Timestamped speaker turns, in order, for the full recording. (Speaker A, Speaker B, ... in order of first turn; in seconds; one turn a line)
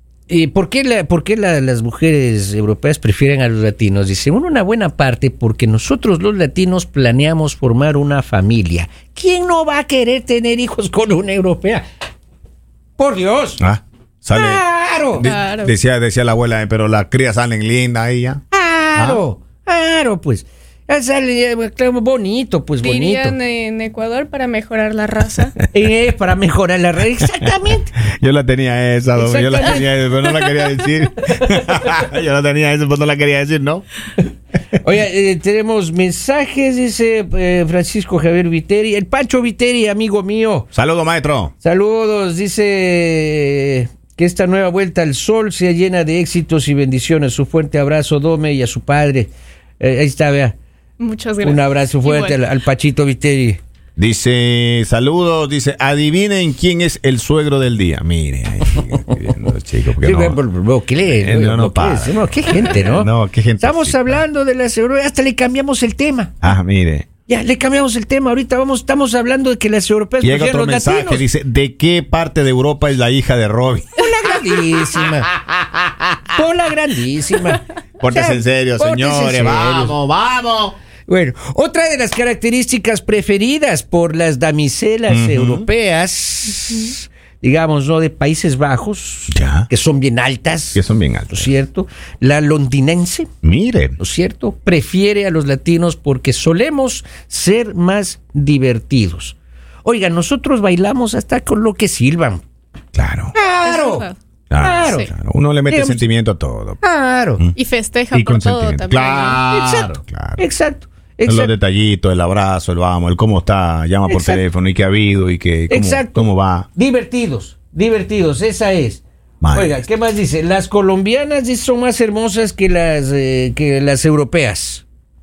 Speaker A: 0.3-11.8
Speaker A: 13.0-13.6
Speaker B: 13.6-18.4
Speaker A: 14.3-15.3
Speaker C: 15.2-15.7
Speaker A: 18.5-23.4
Speaker B: 19.0-19.2
Speaker C: 22.8-25.6
Speaker A: 25.7-27.9
Speaker B: 28.0-33.9
Speaker A: 29.1-29.9
Speaker A: 34.8-40.7
Speaker B: 40.7-41.5
Speaker A: 41.6-50.6
Speaker C: 51.0-52.4
Speaker A: 51.4-53.6
Speaker B: 54.0-60.4
Speaker A: 60.0-66.4
Speaker B: 61.1-64.2
Speaker B: 66.4-67.1
Speaker A: 67.3-71.2
Speaker B: 70.2-73.9
Speaker A: 74.0-75.3
Speaker B: 75.0-76.2
Speaker A: 76.3-79.9
Speaker B: 78.0-80.8
Speaker A: 81.1-93.3
Speaker B: 85.1-85.7
Speaker B: 89.3-89.7
Speaker B: 90.7-91.5
Speaker B: 93.4-94.0
Speaker A: 94.0-102.4
Speaker B: 103.0-103.3
Speaker A: 103.3-104.1
Speaker C: 103.6-104.2
Speaker B: 104.5-106.8
Speaker A: 104.6-105.1
Speaker C: 104.8-105.1
Speaker A: 105.7-106.0
Speaker A: 106.8-107.4
Speaker C: 107.6-109.4
Speaker B: 108.1-110.4
Speaker A: 109.5-111.5
Speaker B: 111.3-116.7
Speaker A: 114.1-114.4
Speaker A: 115.7-119.0
Speaker B: 119.4-119.8
Speaker A: 119.5-124.8